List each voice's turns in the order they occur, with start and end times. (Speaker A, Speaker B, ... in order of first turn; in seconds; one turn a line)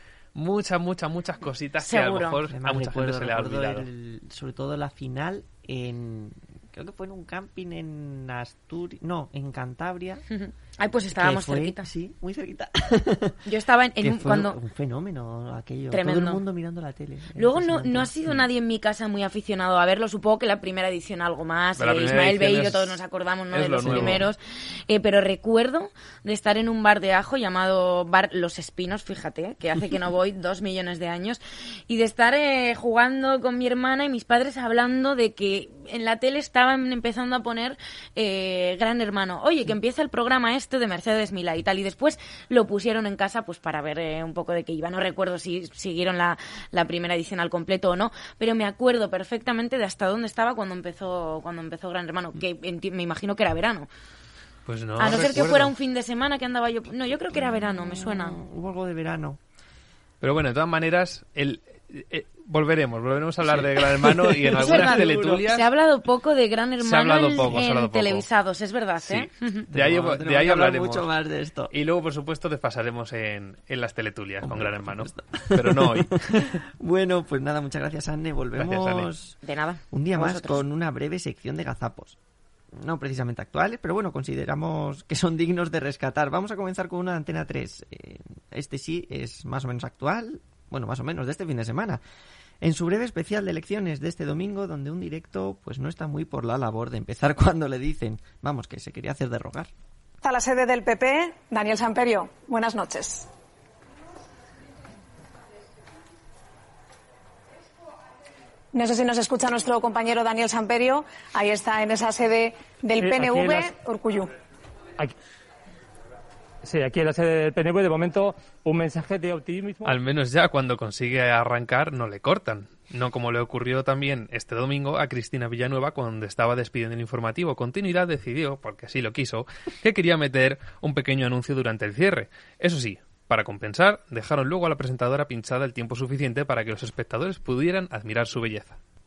Speaker A: 0.3-3.9
Speaker B: 1.8-2.4
Speaker C: 2.5-10.2
Speaker B: 10.3-11.9
Speaker C: 11.1-13.4
Speaker B: 13.5-14.6
Speaker C: 14.0-18.5
Speaker B: 15.9-16.4
Speaker B: 17.4-53.9
Speaker A: 21.8-23.0
Speaker A: 23.5-24.3
Speaker C: 23.8-24.2
Speaker A: 54.7-55.7
Speaker B: 55.0-58.4
Speaker C: 57.3-59.4
Speaker A: 60.2-65.7
Speaker C: 63.5-65.4
Speaker B: 64.6-69.7
Speaker A: 66.8-68.3
Speaker A: 69.0-71.1
Speaker C: 69.7-71.7
Speaker A: 71.7-76.6
Speaker C: 74.4-79.4
Speaker A: 78.6-79.1
Speaker B: 79.4-80.6
Speaker C: 79.9-82.2
Speaker C: 82.7-92.0
Speaker C: 92.6-99.7
Speaker D: 100.2-103.3
Speaker D: 108.7-114.3
Speaker E: 113.0-113.7
Speaker E: 116.6-119.9
Speaker A: 119.8-138.8